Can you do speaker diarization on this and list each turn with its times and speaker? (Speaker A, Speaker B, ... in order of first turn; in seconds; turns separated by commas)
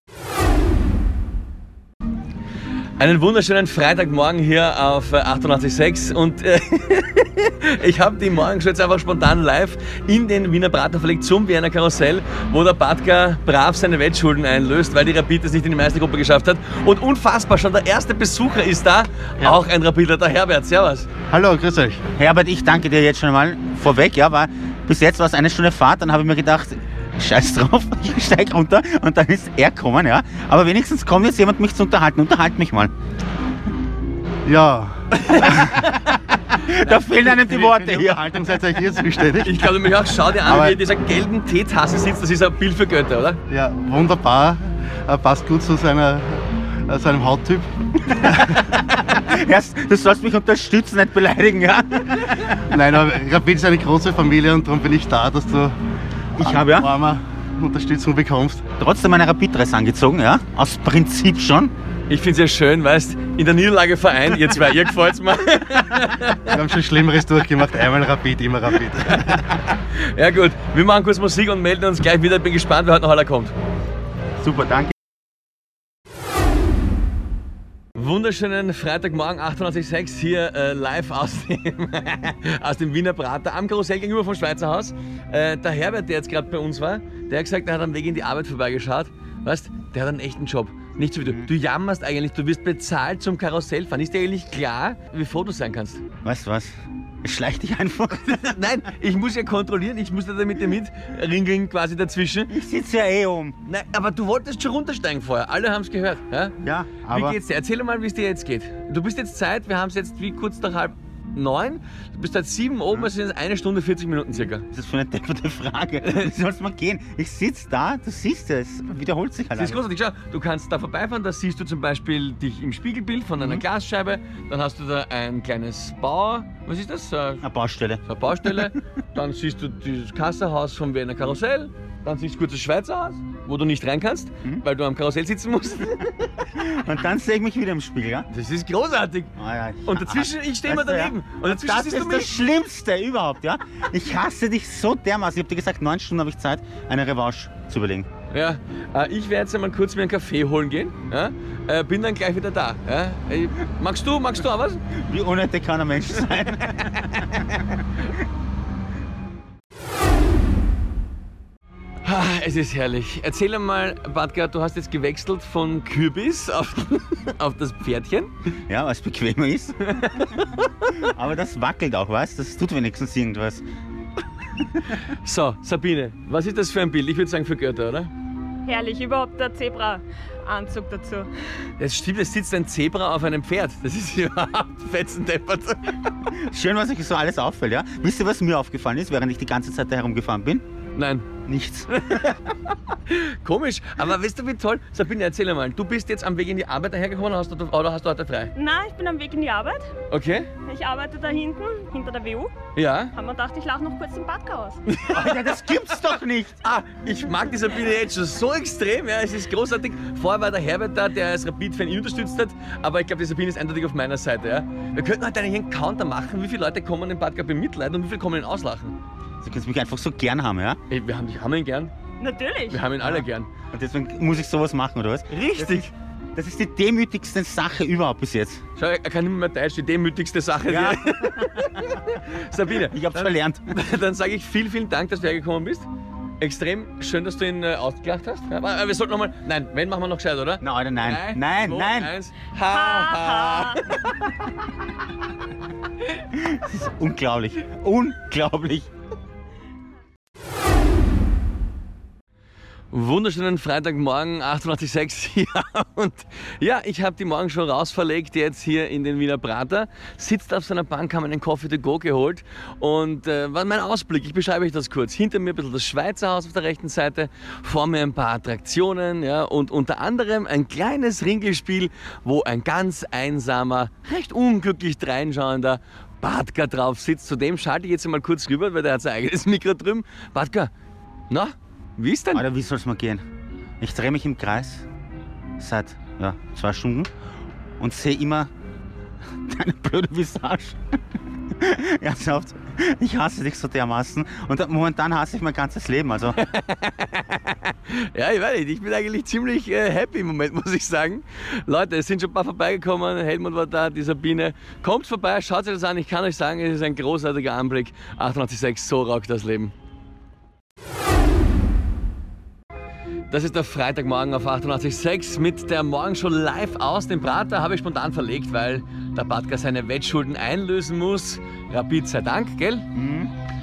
Speaker A: 3.0-21.1, Speaker B: 21.3-22.0, Speaker C: 22.2-32.9, Speaker B: 34.5-35.8, Speaker A: 35.3-35.6, Speaker C: 36.6-38.3, Speaker B: 37.2-39.9, Speaker A: 39.4-43.4, Speaker B: 40.4-40.8, Speaker B: 43.5-48.5, Speaker C: 48.1-52.6, Speaker B: 52.7-55.8, Speaker C: 56.4-56.9, Speaker B: 56.4-58.6, Speaker C: 58.8-61.7, Speaker A: 62.1-66.5, Speaker B: 66.5-69.4, Speaker A: 69.2-73.5, Speaker C: 74.4-74.9, Speaker A: 78.0-96.0, Speaker C: 91.2-91.5, Speaker C: 96.2-98.2, Speaker A: 98.1-102.5, Speaker C: 102.5-103.6, Speaker A: 103.7-106.5, Speaker C: 106.6-107.4, Speaker A: 107.1-114.7, Speaker C: 114.7-119.8, Speaker A: 116.0-116.3, Speaker A: 119.5-127.5, Speaker C: 123.4-123.6, Speaker C: 127.4-128.8, Speaker A: 128.1-136.4, Speaker C: 136.5-138.3, Speaker A: 138.3-139.3, Speaker C: 139.4-148.1, Speaker A: 139.9-142.3, Speaker A: 148.3-154.8, Speaker C: 155.1-157.2, Speaker A: 156.9-157.4, Speaker A: 162.0-168.3, Speaker C: 168.7-173.7, Speaker A: 169.9-170.8, Speaker A: 175.1-178.1, Speaker D: 178.7-181.3, Speaker A: 181.8-186.0, Speaker C: 186.3-190.6, Speaker A: 191.0-191.3, Speaker C: 191.5-192.3, Speaker A: 192.0-192.4, Speaker A: 193.1-198.5, Speaker D: 198.6-199.9, Speaker A: 200.1-200.5, Speaker D: 200.6-202.5, Speaker A: 202.8-203.1, Speaker D: 203.1-204.8, Speaker A: 204.9-205.4, Speaker C: 205.1-206.6, Speaker A: 206.6-219.0, Speaker C: 219.4-220.8, Speaker A: 220.9-221.9, Speaker D: 222.2-222.9, Speaker A: 222.7-223.5, Speaker C: 223.1-228.6, Speaker A: 225.3-225.9, Speaker A: 228.8-235.9, Speaker C: 230.7-231.7, Speaker C: 232.9-233.8, Speaker A: 236.4-244.2, Speaker C: 240.6-242.1, Speaker D: 242.7-243.8, Speaker C: 246.3-248.9, Speaker A: 252.9-280.7, Speaker A: 281.3-282.4, Speaker C: 282.3-283.2, Speaker C: 283.8-284.9, Speaker C: 285.6-287.1, Speaker C: 287.8-288.5, Speaker C: 289.4-290.8, Speaker C: 291.6-296.4, Speaker A: 296.4-309.7, Speaker A: 313.3-322.9, Speaker C: 322.9-323.3